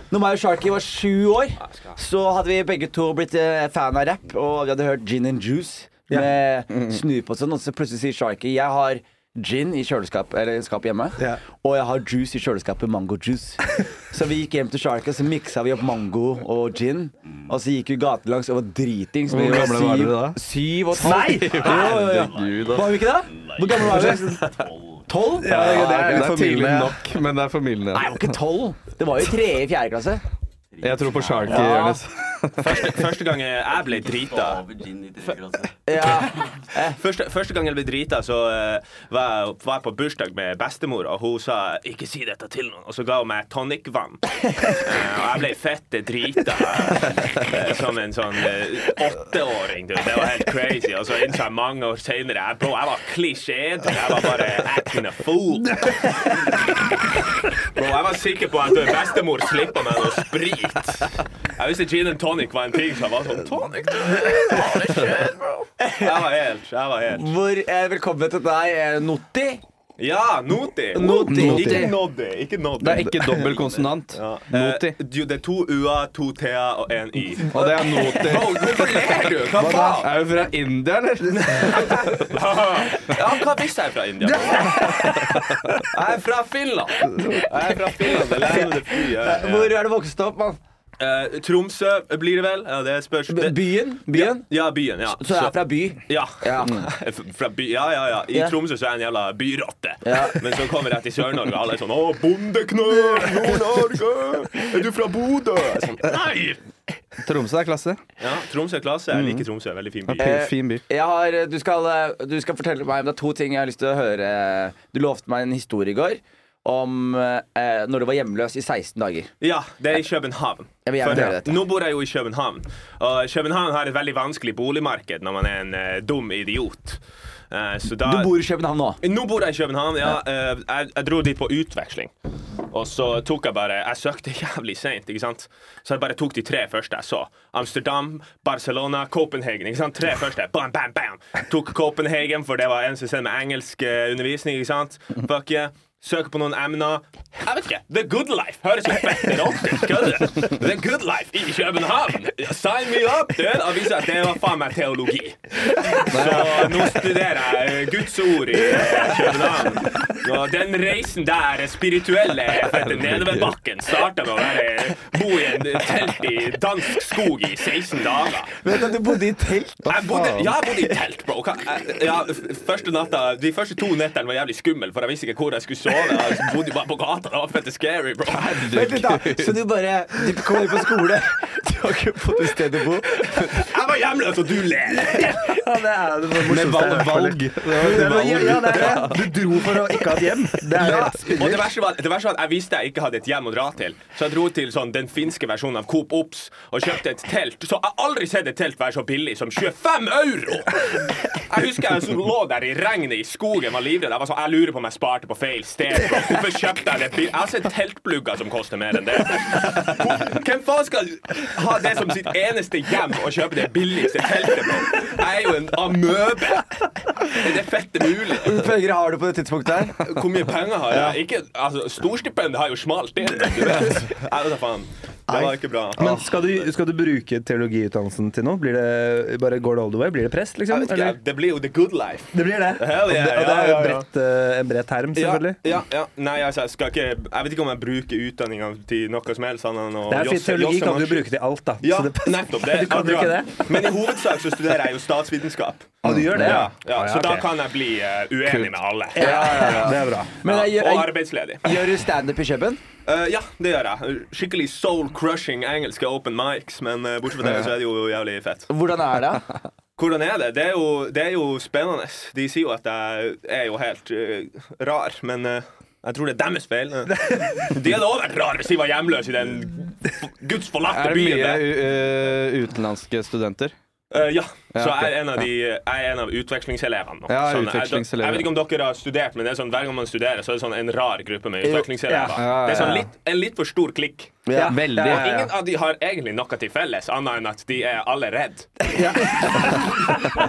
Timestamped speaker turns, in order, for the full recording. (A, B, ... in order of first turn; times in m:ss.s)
0:00.1-0:24.4 A
0:19.3-0:20.4 B
0:20.9-0:22.0 C
0:21.3-0:22.8 B
0:21.5-0:25.1 D
0:23.9-0:24.2 C
0:25.1-0:25.8 A
0:25.4-0:27.0 C
0:25.4-0:28.3 B
0:27.9-0:30.2 A
0:30.7-0:31.9 D
0:30.8-0:32.7 B
0:32.6-0:34.6 E
0:33.8-0:36.4 D
0:35.9-0:37.0 A
0:36.8-0:44.2 E
0:44.8-0:55.9 E
0:57.7-1:05.4 E
1:05.8-1:06.3 A
1:05.9-1:07.3 E
1:07.1-1:09.6 A
1:10.0-1:13.5 E
1:10.9-1:11.8 A
1:11.2-1:11.9 B
1:12.8-1:15.0 B
1:14.1-1:20.1 E
1:17.5-1:18.9 B
1:19.6-1:19.9 C
1:19.8-1:22.0 B
1:21.4-1:25.2 E
1:24.4-1:25.2 C
1:25.9-1:29.8 E
1:28.2-1:30.6 A
1:31.0-1:46.6 E
1:33.3-1:36.9 A
1:40.0-1:40.4 A
1:47.2-1:48.0 B
1:48.2-1:50.4 E
1:49.1-1:49.4 B
1:50.1-1:50.8 B
1:50.3-1:59.3 A
1:59.4-2:08.3 E
2:00.8-2:01.6 A
2:08.0-2:09.0 A
2:09.0-2:12.1 E
2:12.7-2:48.6 E
2:36.1-2:36.7 B
2:42.6-2:43.5 B
2:48.6-2:49.9 A
2:49.8-2:50.5 B
2:49.8-2:58.5 E
2:58.3-2:59.6 B
2:58.7-3:03.3 A
3:03.2-3:05.4 E
3:05.0-3:11.7 C
3:06.4-3:09.3 B
3:10.7-3:38.6 E
3:38.4-3:40.0 A
3:40.0-3:46.2 E
3:46.0-3:51.2 C
3:50.7-3:54.0 E
3:52.3-3:55.6 C
3:55.1-4:01.3 E
4:00.1-4:03.9 C
4:01.8-4:11.8 E
4:06.0-4:07.5 C
4:06.1-4:06.6 B
4:08.4-4:09.9 B
4:09.1-4:10.4 C
4:09.2-4:09.9 A
4:10.4-4:12.8 A
4:13.0-4:18.7 E
4:18.7-4:19.4 A
4:20.0-4:31.7 E
4:30.8-4:33.7 B
4:34.1-4:44.4 E
4:34.7-4:35.1 B
4:37.3-4:38.5 B
4:42.1-4:43.0 C
4:42.4-4:43.0 B
4:44.4-4:44.8 A
4:44.5-4:45.5 C
4:44.7-4:45.5 B
4:45.0-4:48.9 E
4:48.9-4:49.8 C